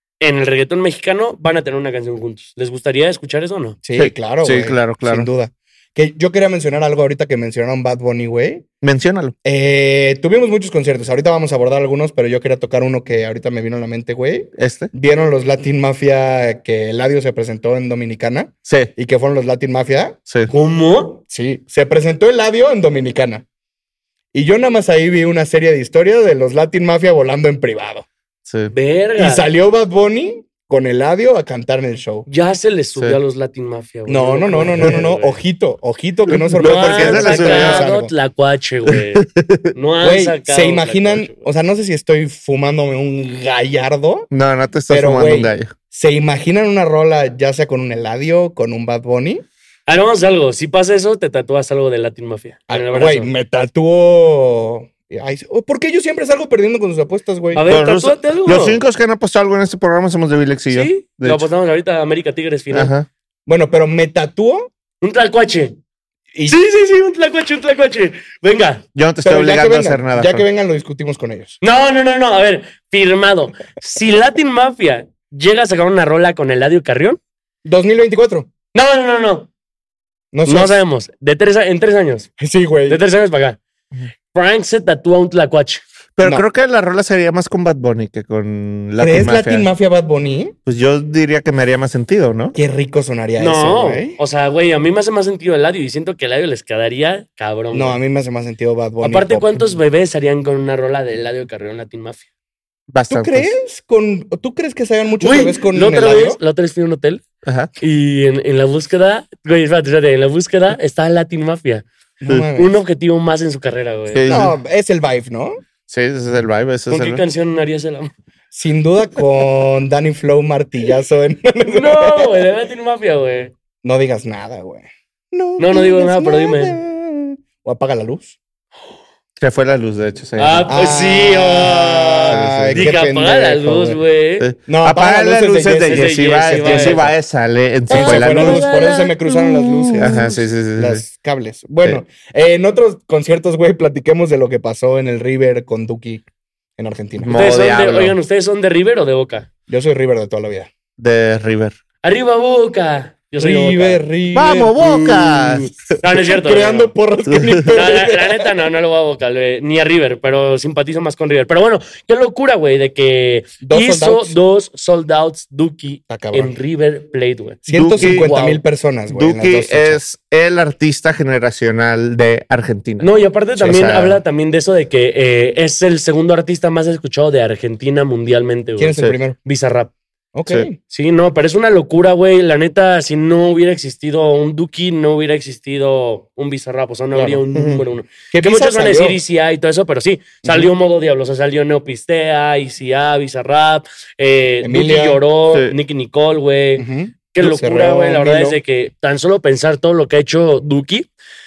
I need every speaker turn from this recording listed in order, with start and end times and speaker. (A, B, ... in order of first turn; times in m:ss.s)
0:00.2-0:03.8 A
0:03.8-0:08.6 B
0:04.0-0:05.3 C
0:08.8-0:09.3 C
0:09.4-0:20.2 B
0:14.6-0:14.9 C
0:18.6-0:18.9 C
0:20.5-0:21.2 A
0:21.3-0:23.4 B
0:24.3-0:28.1 B
0:28.5-0:28.7 C
0:28.7-0:29.4 A
0:29.2-0:32.3 B
0:32.3-0:35.4 A
0:34.1-0:38.1 B
0:36.3-0:37.9 C
0:36.6-0:41.4 A
0:38.8-0:39.7 C
0:40.0-0:44.3 B
0:44.3-0:45.7 C
0:44.9-0:49.4 B
0:49.9-0:53.3 A
0:52.7-0:57.7 B
0:57.5-0:58.8 A
0:57.6-1:01.5 C
1:00.7-1:02.9 A
1:02.7-1:03.1 C
1:03.5-1:04.7 B
1:05.0-1:05.8 A
1:06.3-1:06.6 B
1:06.5-1:08.8 A
1:08.9-1:10.4 C
1:09.2-1:11.6 B
1:11.6-1:17.2 A
1:17.6-1:18.5 B
1:18.7-1:19.5 A
1:20.3-1:20.8 B
1:20.4-1:22.3 A
1:22.4-1:23.0 B
1:22.9-1:23.6 A
1:24.3-1:25.8 A
1:26.2-1:29.7 C
1:29.0-1:30.5 B
1:30.6-1:32.6 C
1:32.6-1:34.2 B
1:33.4-1:38.0 A
1:37.7-1:39.6 B
1:39.0-1:42.3 A
1:42.9-1:43.5 C
1:43.1-1:46.4 B
1:45.2-1:47.2 A
1:47.4-1:47.7 C
1:47.8-1:51.8 A
1:52.2-1:52.8 B
1:52.6-1:54.3 A
1:54.1-1:54.6 C
1:54.3-1:55.6 B
1:55.9-1:57.2 C
1:56.9-1:58.1 A
1:58.5-2:02.4 B
2:01.7-2:03.5 A
2:03.8-2:08.4 B
2:05.6-2:06.8 A
2:09.4-2:10.7 C
2:10.4-2:14.5 A
2:10.7-2:14.0 B
2:12.3-2:13.0 C
2:14.4-2:18.8 C
2:14.7-2:17.1 B
2:15.9-2:17.0 A
2:17.9-2:20.4 A
2:17.9-2:26.2 B
2:20.0-2:21.0 C
2:26.8-2:27.4 B
2:27.2-2:28.2 C
2:27.3-2:29.5 A
2:29.7-2:30.7 B
2:31.0-2:31.8 C
2:32.0-2:34.0 A
2:33.4-2:35.2 B
2:34.3-2:35.8 C
2:34.8-2:36.9 A
2:36.2-2:38.5 B
2:37.2-2:37.8 C
2:37.6-2:48.6 A
2:43.6-2:44.4 B
2:46.1-2:46.6 B
2:47.6-2:50.0 B
2:47.7-2:48.3 C
2:49.1-2:54.2 C
2:53.0-2:59.9 A
2:58.8-2:59.4 B
3:00.3-3:00.8 B
3:00.9-3:21.1 A
3:07.1-3:07.4 B
3:07.5-3:07.8 C
3:08.3-3:09.2 B
3:10.4-3:10.7 B
3:14.6-3:15.2 B
3:16.8-3:18.6 B